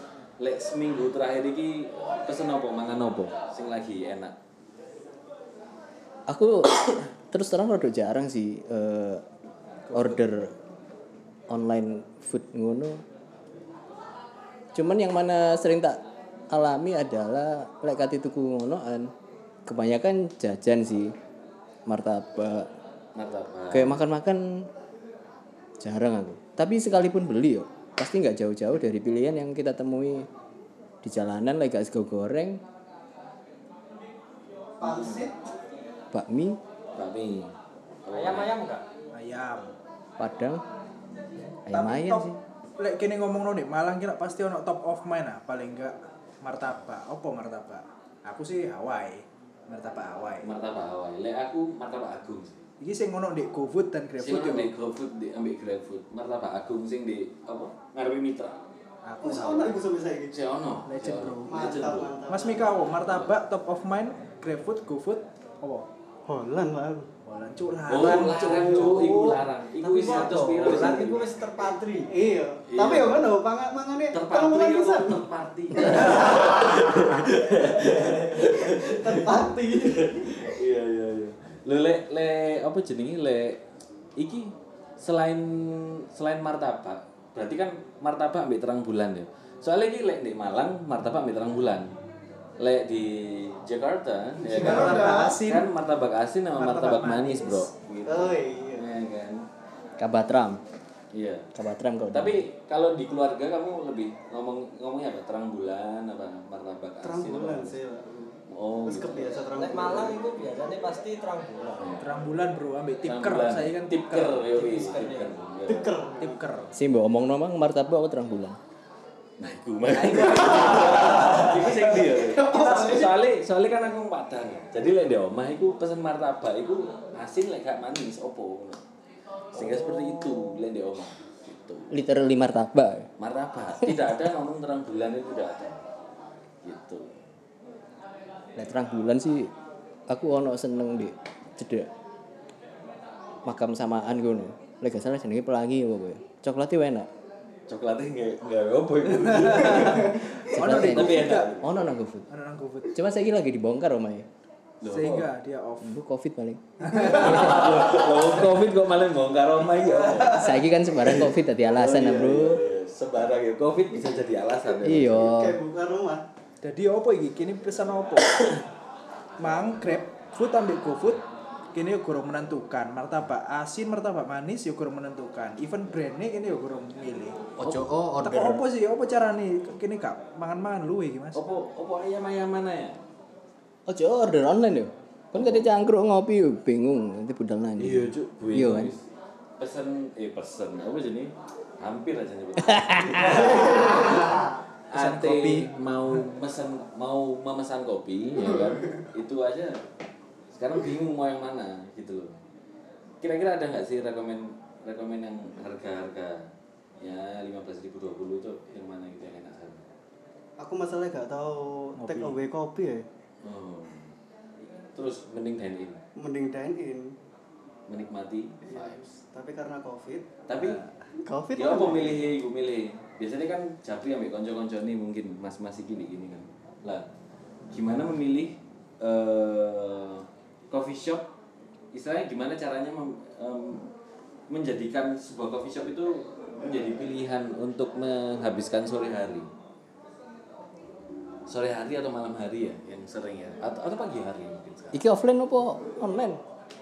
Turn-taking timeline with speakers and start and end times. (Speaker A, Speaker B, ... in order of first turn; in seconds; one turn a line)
Speaker A: 0.4-4.3
Speaker B: 6.3-9.2
Speaker B: 9.9-10.5
Speaker B: 11.5-13.0
Speaker B: 14.7-19.1
Speaker B: 19.6-21.1
Speaker B: 21.9-22.7
Speaker A: 23.1-24.0
Speaker B: 23.7-24.7
Speaker B: 25.8-30.3
Speaker B: 31.0-32.6
Speaker C: 34.8-35.4
Speaker A: 34.8-35.3
Speaker B: 36.1-36.6
Speaker A: 37.0-37.5
Speaker A: 38.0-38.5
Speaker D: 38.1-38.8
Speaker E: 39.1-39.7
Speaker B: 40.2-40.6
Speaker B: 41.7-42.4
Speaker E: 41.7-50.5
Speaker A: 50.4-52.6
Speaker E: 52.8-54.7
Speaker A: 54.2-58.5
Speaker E: 59.0-59.8
Speaker C: 59.2-60.3
Speaker A: 60.3-62.2
Speaker E: 60.9-61.6
Speaker C: 61.5-62.7
Speaker E: 62.3-65.9
Speaker A: 63.1-63.3
Speaker C: 66.2-67.1
Speaker E: 67.2-69.4
Speaker A: 67.9-71.3
Speaker C: 69.8-80.5
Speaker D: 69.9-71.2
Speaker A: 72.7-73.2
Speaker A: 74.1-83.6
Speaker A: 84.2-91.9
Speaker A: 92.6-99.4
Speaker C: 94.4-95.4
Speaker E: 94.5-95.7
Speaker E: 96.5-97.7
Speaker C: 98.0-98.8
Speaker B: 100.0-100.6
Speaker A: 101.1-101.5
Speaker B: 101.5-102.4
Speaker A: 102.1-107.8
Speaker C: 107.0-110.2
Speaker A: 108.5-109.4
Speaker D: 109.6-111.8
Speaker A: 111.8-112.0
Speaker E: 112.0-114.4
Speaker A: 113.0-116.0
Speaker D: 114.4-115.3
Speaker C: 115.6-116.4
Speaker E: 116.2-116.7
Speaker B: 116.7-118.6
Speaker A: 119.4-128.8
Speaker C: 120.1-123.2
Speaker E: 120.1-120.7
Speaker A: 129.5-131.9
Speaker B: 131.9-133.1
Speaker A: 133.2-135.8
Speaker A: 136.6-137.2
Speaker B: 138.6-139.5
Speaker B: 140.1-141.9
Speaker B: 143.4-147.1
Speaker A: 147.7-151.8
Speaker E: 149.2-151.6
Speaker B: 150.5-152.3
Speaker E: 152.3-153.0
Speaker B: 152.9-154.3
Speaker A: 154.8-155.3
Speaker E: 154.9-156.0
Speaker B: 155.8-157.3
Speaker E: 156.8-157.6
Speaker A: 156.9-165.4
Speaker B: 160.3-162.6
Speaker B: 164.8-165.6
Speaker C: 165.2-166.2
Speaker E: 166.6-168.4
Speaker E: 169.4-171.2
Speaker E: 171.7-177.4
Speaker B: 177.6-178.6
Speaker E: 178.2-181.4
Speaker A: 181.3-183.0
Speaker B: 183.9-188.9
Speaker A: 185.3-185.7
Speaker A: 187.8-189.0
Speaker A: 189.6-199.8
Speaker B: 192.6-193.5
Speaker C: 193.4-194.1
Speaker E: 193.9-196.2
Speaker C: 198.5-198.8
Speaker A: 200.5-202.4
Speaker A: 203.2-206.5
Speaker A: 207.0-209.8
Speaker C: 210.6-213.1
Speaker E: 211.9-212.4
Speaker A: 213.4-214.1
Speaker A: 214.9-216.0
Speaker C: 216.2-217.1
Speaker A: 217.9-219.0
Speaker C: 218.6-220.3
Speaker A: 220.5-220.8
Speaker E: 220.6-220.8
Speaker C: 221.2-222.2
Speaker A: 221.5-227.1
Speaker A: 227.7-231.3
Speaker A: 231.9-233.9
Speaker A: 234.5-239.5
Speaker A: 241.5-245.0
Speaker B: 244.9-246.4